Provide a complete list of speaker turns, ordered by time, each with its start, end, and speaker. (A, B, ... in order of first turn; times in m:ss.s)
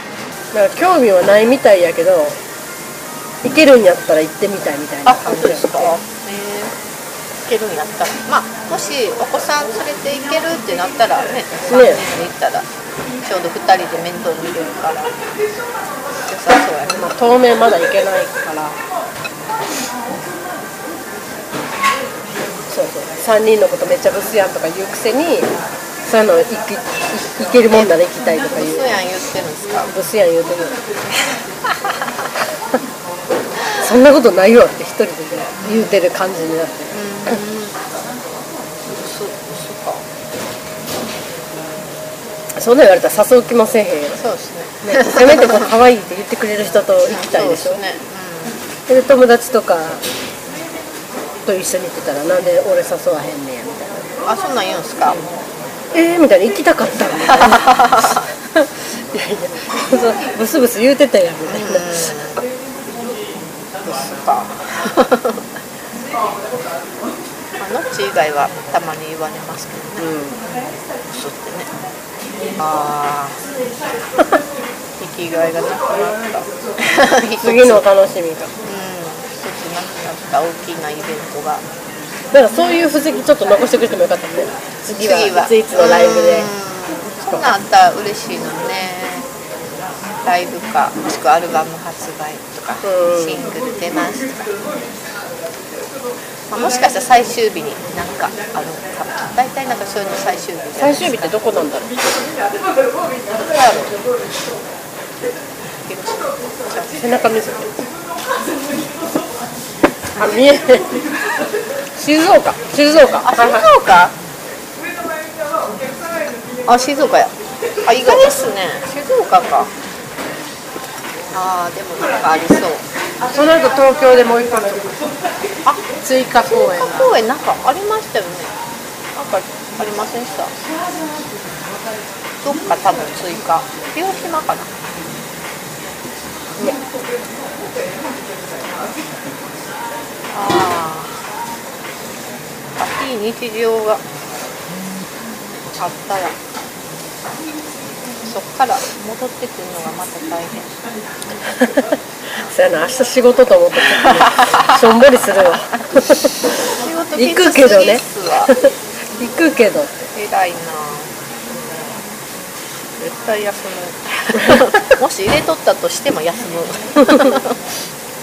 0:00.5-0:02.4 A
0:03.4-0:06.0 A
0:05.0-0:06.7 B
0:07.4-0:12.7 B
0:11.7-0:12.0 A
0:13.2-0:15.2 B
0:16.3-0:17.1 B
0:16.9-0:18.8 A
0:22.7-0:25.5 A
0:26.0-0:28.9 A
0:28.5-0:29.9 B
0:29.9-0:30.8 A
0:33.8-0:37.4 A
0:35.6-0:36.0 B
0:36.9-0:37.9 B
0:38.9-0:40.0 B
0:42.6-0:44.2 A
0:44.2-0:45.7 B
0:44.8-0:47.8 A
0:47.0-0:48.6 B
0:48.9-0:50.0 A
0:51.5-0:54.1 A
0:54.2-0:55.2 B
0:55.9-1:02.0 A
0:57.4-0:58.2 B
1:01.5-1:02.4 B
1:03.8-1:05.4 B
1:07.6-1:10.1 B
1:10.0-1:10.4 A
1:11.0-1:11.7 B
1:12.6-1:13.4 B
1:15.0-1:17.8 B
1:17.4-1:18.5 A
1:18.6-1:21.6 B
1:22.3-1:26.5 A
1:24.9-1:29.3 B
1:30.2-1:34.6 B
1:32.8-1:33.4 A
1:36.5-1:41.4 B
1:40.8-1:41.9 A
1:43.3-1:44.0 B
1:45.9-1:47.0 B
1:47.0-1:47.7 A
1:50.2-1:50.9 A
1:52.0-1:53.7 A
1:53.2-1:54.2 B
1:56.7-1:57.3 B
1:57.8-1:59.7 B
2:01.3-2:02.9 B
2:03.2-2:05.0 A
2:06.0-2:07.1 A
2:06.4-2:08.5 B
2:09.2-2:10.5 B
2:12.4-2:14.7 B
2:20.3-2:21.2 B
2:22.8-2:24.0 B
2:25.8-2:26.4 B
2:28.2-2:30.7 B
2:31.5-2:36.5 A
2:34.3-2:34.7 B
2:36.6-2:38.5 B
2:37.2-2:39.9 A
2:40.1-2:41.1 B
2:43.0-2:47.6 B